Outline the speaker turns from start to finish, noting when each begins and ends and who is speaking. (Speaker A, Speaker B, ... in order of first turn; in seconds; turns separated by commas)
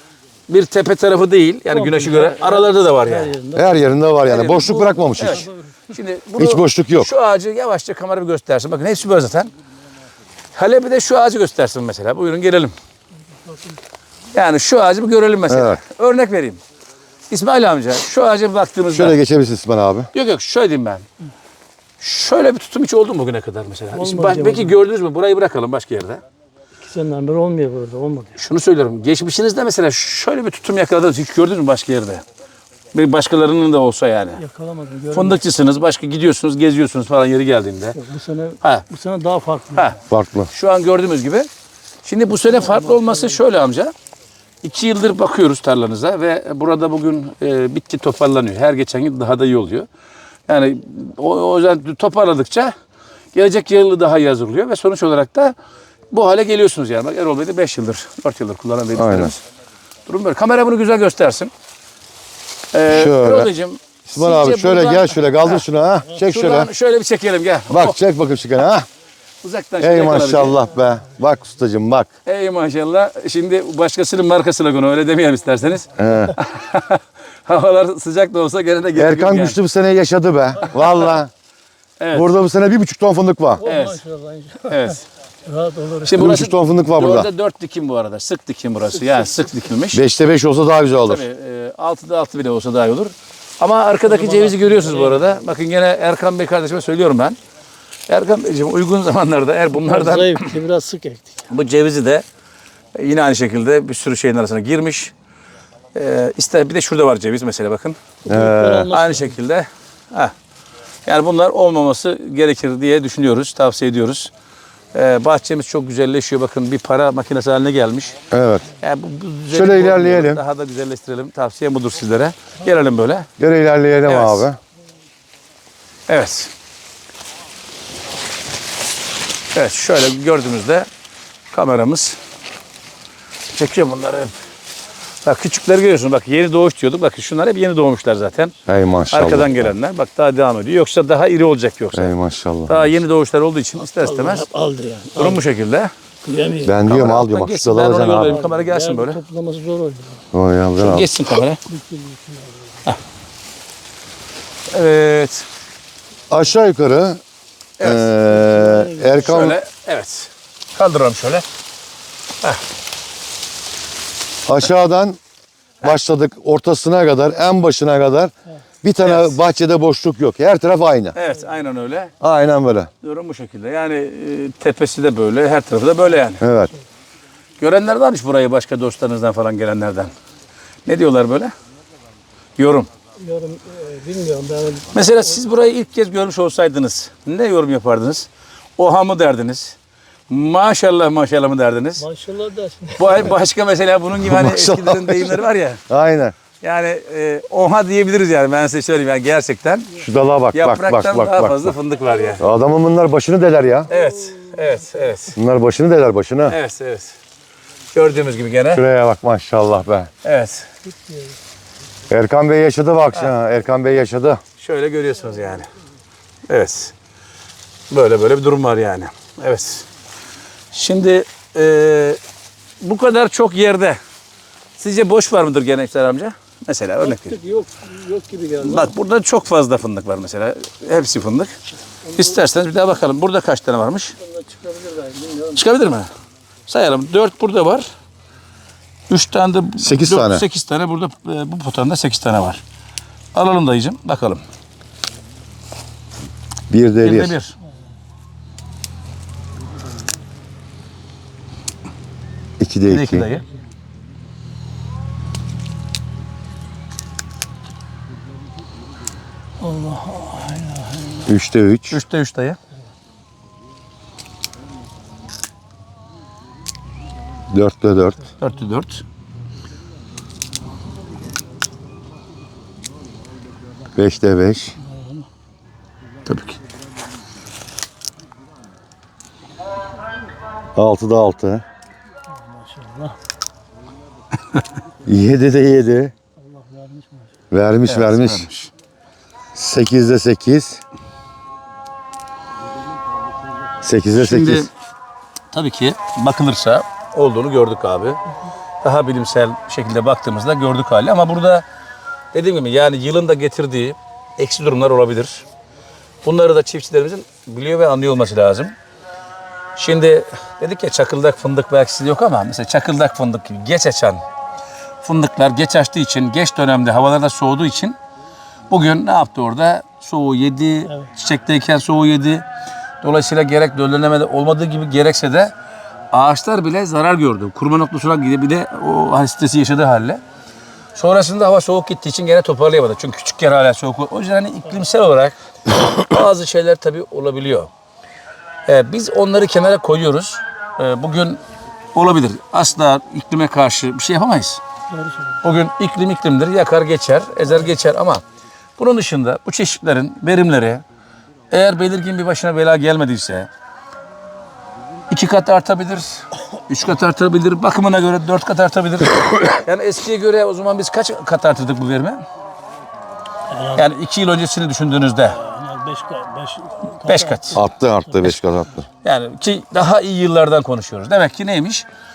Speaker A: 0.5-3.4, Speaker B: 1.7-3.8, Speaker C: 3.5-5.5, Speaker A: 4.3-9.5, Speaker B: 4.6-5.7, Speaker C: 6.4-7.1, Speaker A: 10.5-12.8, Speaker B: 13.5-13.8, Speaker A: 14.3-16.6, Speaker C: 15.5-15.8, Speaker A: 17.3-19.2, Speaker C: 18.9-20.1, Speaker A: 20.1-21.1, Speaker A: 22.0-26.2, Speaker B: 23.9-24.8, Speaker B: 26.8-28.4, Speaker A: 28.4-32.2, Speaker A: 32.9-34.4, Speaker B: 34.4-35.4, Speaker A: 35.1-38.0, Speaker B: 38.0-39.9, Speaker C: 40.1-40.5, Speaker A: 40.5-41.5, Speaker A: 42.0-43.9, Speaker B: 42.5-43.4, Speaker A: 44.6-49.9, Speaker A: 50.5-52.7, Speaker A: 53.3-55.5, Speaker A: 56.1-59.4, Speaker C: 58.9-59.3, Speaker A: 60.1-61.5, Speaker A: 62.7-68.0, Speaker C: 62.9-63.5, Speaker C: 64.1-66.7, Speaker C: 67.7-68.9, Speaker A: 69.4-70.7, Speaker C: 69.8-72.1, Speaker A: 72.2-79.6, Speaker C: 76.0-76.4, Speaker C: 79.0-81.3, Speaker A: 82.0-82.3, Speaker C: 82.1-83.7, Speaker B: 83.6-84.9, Speaker A: 83.6-84.0, Speaker A: 84.7-85.0, Speaker B: 85.5-86.2, Speaker A: 86.0-90.0, Speaker C: 86.1-87.3, Speaker C: 89.9-91.2, Speaker A: 91.0-97.4, Speaker B: 94.1-95.3, Speaker A: 98.1-100.5, Speaker B: 99.8-101.4, Speaker A: 101.5-102.2, Speaker A: 103.0-105.1, Speaker A: 106.0-108.0, Speaker B: 108.2-109.4, Speaker C: 108.3-108.9, Speaker A: 108.9-110.3, Speaker A: 111.1-114.3, Speaker A: 114.9-118.2, Speaker C: 118.3-118.7, Speaker A: 118.8-123.3, Speaker C: 119.5-120.4, Speaker C: 123.4-124.6, Speaker A: 124.1-124.5, Speaker A: 126.1-126.5, Speaker A: 129.5-130.9, Speaker A: 131.5-132.2, Speaker A: 133.5-134.3, Speaker A: 135.2-138.6, Speaker C: 138.7-139.7, Speaker A: 139.1-142.1, Speaker C: 141.9-142.9, Speaker A: 142.7-144.5, Speaker B: 143.8-145.4, Speaker A: 145.2-145.9, Speaker B: 146.2-146.8, Speaker C: 146.6-148.4, Speaker A: 146.8-149.2, Speaker B: 148.2-150.3, Speaker C: 150.3-151.1, Speaker A: 150.8-151.6, Speaker B: 151.7-152.8, Speaker A: 154.7-155.5, Speaker C: 156.3-157.2, Speaker A: 157.8-158.1, Speaker C: 157.8-159.6, Speaker B: 158.3-159.4, Speaker A: 159.2-161.5, Speaker C: 164.5-165.2, Speaker C: 165.8-168.3, Speaker C: 168.8-171.2, Speaker A: 169.0-169.4, Speaker A: 171.1-172.1, Speaker C: 172.2-172.9, Speaker A: 173.0-176.4, Speaker C: 176.4-176.7, Speaker A: 177.6-180.1, Speaker A: 180.9-181.5, Speaker A: 182.6-182.9, Speaker B: 183.2-184.9, Speaker A: 184.9-189.8, Speaker A: 190.3-192.1, Speaker B: 192.0-193.3, Speaker A: 193.0-195.8, Speaker C: 194.2-196.3, Speaker A: 196.6-199.9, Speaker C: 199.9-201.7, Speaker A: 200.5-202.5, Speaker C: 202.4-203.9, Speaker A: 203.9-205.4, Speaker B: 203.9-204.9, Speaker C: 205.4-206.6, Speaker A: 206.5-207.2, Speaker A: 207.9-208.8, Speaker C: 208.7-210.1, Speaker A: 210.2-210.7, Speaker B: 210.9-211.4, Speaker C: 212.1-214.4, Speaker A: 214.6-215.7, Speaker A: 216.5-216.9, Speaker A: 217.9-219.9, Speaker A: 220.7-222.2, Speaker A: 222.8-224.0, Speaker A: 224.8-227.4, Speaker B: 227.0-228.9, Speaker A: 228.6-231.5, Speaker A: 232.1-234.2, Speaker B: 234.2-235.6, Speaker A: 235.5-236.1, Speaker A: 236.7-237.9, Speaker A: 239.1-242.6, Speaker C: 239.8-240.4, Speaker A: 243.3-244.4, Speaker C: 246.7-247.3, Speaker A: 247.0-247.6, Speaker C: 252.6-253.3, Speaker A: 252.9-253.4, Speaker B: 259.6-261.3, Speaker C: 261.3-262.0, Speaker A: 261.9-262.6, Speaker C: 267.5-268.2, Speaker A: 268.4-269.0, Speaker C: 273.9-274.8, Speaker B: 274.8-275.3, Speaker A: 276.2-276.6, Speaker C: 280.8-281.6, Speaker B: 282.3-283.2, Speaker C: 285.0-286.1, Speaker B: 286.4-287.3, Speaker C: 287.5-288.5, Speaker A: 287.9-288.7, Speaker C: 289.6-290.8, Speaker C: 293.8-294.7, Speaker A: 294.1-294.7, Speaker A: 295.5-298.2, Speaker A: 298.8-301.6, Speaker A: 302.3-305.4, Speaker A: 306.2-308.7, Speaker A: 309.8-314.2, Speaker A: 315.0-318.0, Speaker A: 318.7-322.4, Speaker A: 323.0-325.5, Speaker A: 326.1-330.2, Speaker A: 330.9-337.7, Speaker A: 338.7-341.4, Speaker A: 341.9-344.6, Speaker B: 344.9-345.4, Speaker A: 345.4-348.2, Speaker A: 348.8-350.8, Speaker A: 351.5-353.5, Speaker A: 355.1-362.2, Speaker B: 363.5-363.9, Speaker A: 363.7-365.4, Speaker B: 365.4-368.3, Speaker A: 367.1-367.6, Speaker C: 367.5-368.9, Speaker A: 369.0-371.9